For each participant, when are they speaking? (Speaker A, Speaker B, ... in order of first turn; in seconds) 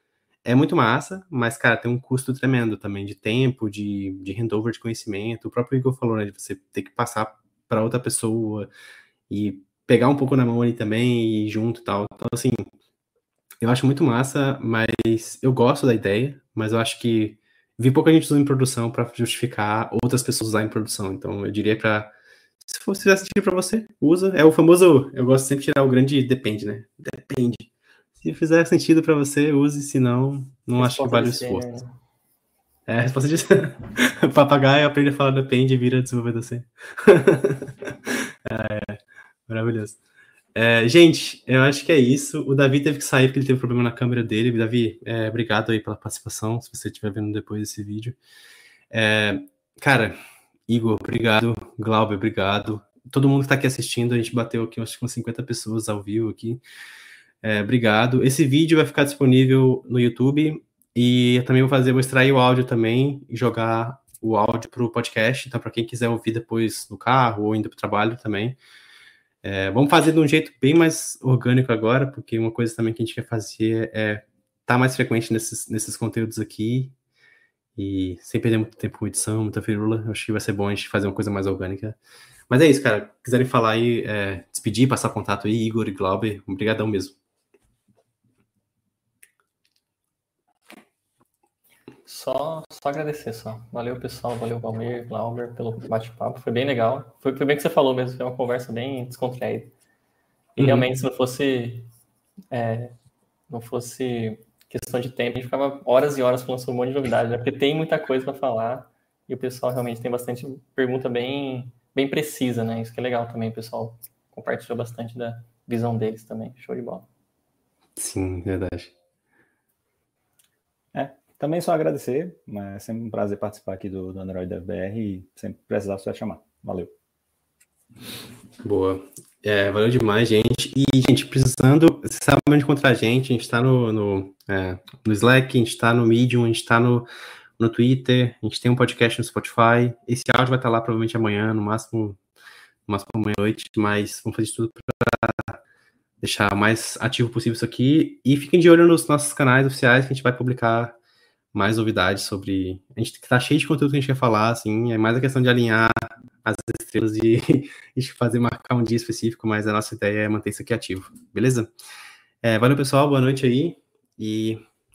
Speaker A: 0.5-8.7, 9.3-12.7, 13.6-22.1, 22.6-27.7, 28.2-31.7, 32.9-40.0, 40.5-48.2, 48.9-56.6, 57.4-68.6, 69.4-76.9, 77.8-82.0, 82.5-87.2, 100.6-100.9, 118.0-118.9, 128.6-137.1, 137.6-142.2, 142.9-145.6, 146.2-151.0, 151.5-161.7, 162.4-164.6
Speaker B: 30.8-31.9, 92.1-99.7, 100.6-101.9, 102.5-102.9, 103.5-117.1
Speaker C: 120.9-126.9